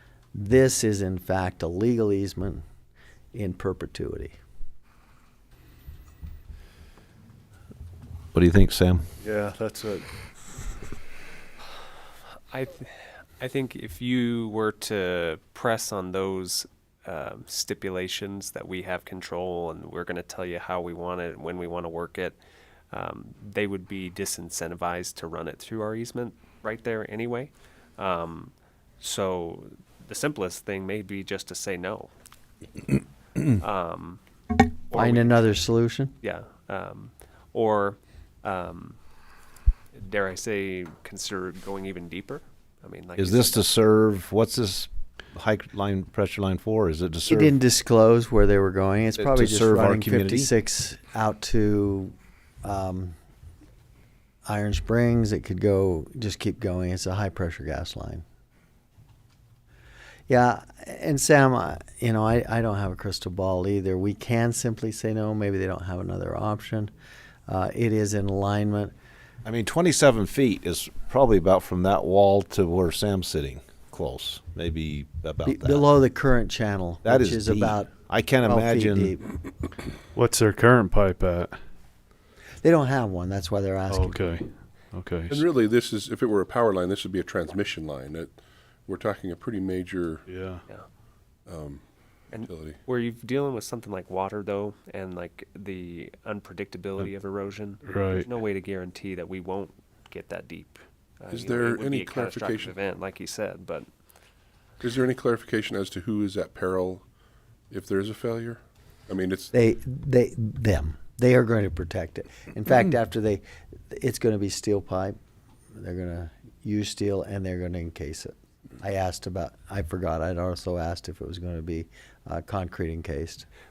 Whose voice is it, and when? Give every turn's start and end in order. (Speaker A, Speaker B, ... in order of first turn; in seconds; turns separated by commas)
Speaker A: 0.3-2.6, Speaker A: 3.3-4.4, Speaker B: 8.3-9.1, Speaker C: 9.2-10.1, Speaker D: 12.5-22.4, Speaker D: 22.9-32.1, Speaker D: 33.4-34.2, Speaker D: 34.9-35.5, Speaker A: 34.9-36.1, Speaker D: 36.2-39.0, Speaker D: 40.0-43.7, Speaker B: 43.2-47.5, Speaker A: 47.3-53.1, Speaker B: 49.2-50.5, Speaker A: 54.5-58.2, Speaker A: 60.3-66.9, Speaker A: 67.5-68.9, Speaker B: 69.5-75.9, Speaker A: 75.5-77.9, Speaker B: 77.0-79.2, Speaker A: 78.4-79.2, Speaker C: 80.1-81.6, Speaker A: 82.6-84.2, Speaker C: 83.9-85.4, Speaker E: 85.3-88.3, Speaker E: 88.9-90.3, Speaker C: 90.3-90.6, Speaker E: 91.5-91.8, Speaker D: 92.3-103.9, Speaker E: 92.4-92.8, Speaker C: 97.8-98.3, Speaker E: 101.3-102.8, Speaker E: 104.8-107.0, Speaker E: 107.7-109.5, Speaker A: 109.5-115.2, Speaker A: 115.8-123.5